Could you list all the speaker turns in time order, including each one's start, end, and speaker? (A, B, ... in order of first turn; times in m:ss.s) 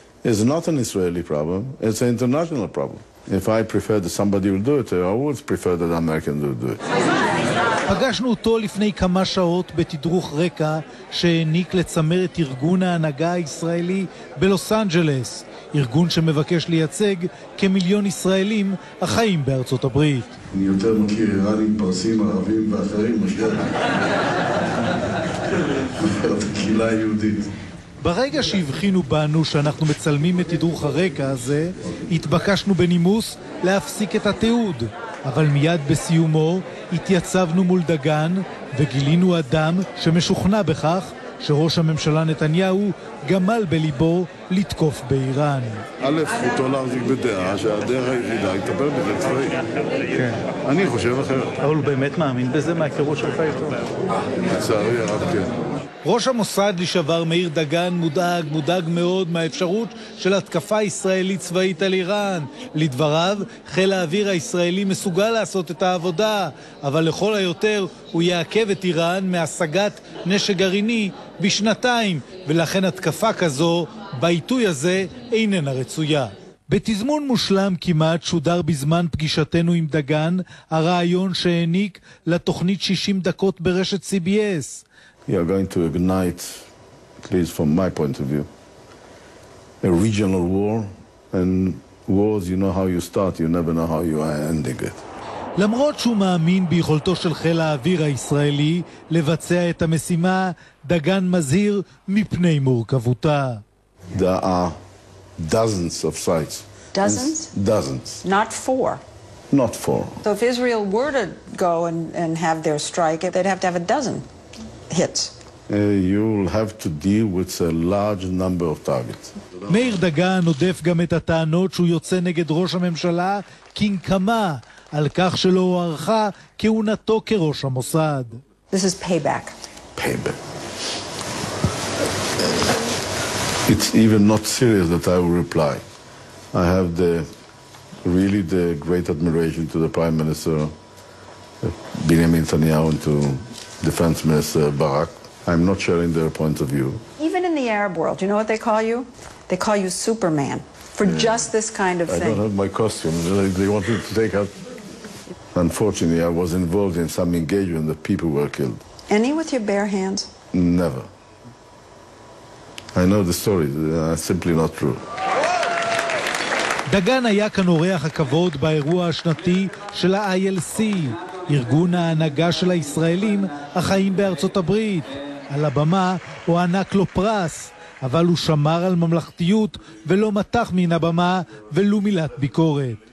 0:00.2-0:06.8 A
0:07.9-0:20.4 B
0:20.5-0:23.9 A
0:25.8-0:27.5 A
0:28.0-0:45.8 B
0:46.0-0:49.7 A
0:50.1-0:50.4 B
0:50.6-0:51.6 A
0:51.6-0:53.9 B
0:54.2-0:55.6 A
0:56.0-1:24.8 B
1:25.2-1:26.6 A
1:27.2-1:28.5 A
1:29.8-1:35.0 A
1:35.6-1:43.6 B
1:44.1-1:44.8 A
1:45.4-1:48.2 A
1:46.9-1:47.5 C
1:48.2-1:49.0 C
1:49.5-1:50.2 A
1:50.2-1:54.2 C
1:54.9-1:55.3 C
1:55.7-1:59.4 A
1:59.7-2:08.4 B
2:08.7-2:09.5 C
2:10.0-2:10.4 A
2:13.7-2:15.8 A
2:16.5-2:17.2 A
2:18.0-2:20.7 A
2:21.6-2:27.0 A
2:27.2-2:32.4 C
2:31.0-2:31.3 A
2:32.1-2:34.5 A
2:35.5-2:38.8 A
2:39.1-2:40.3 C
2:40.5-2:41.1 A
2:42.9-2:45.0 A
2:46.9-3:03.0 B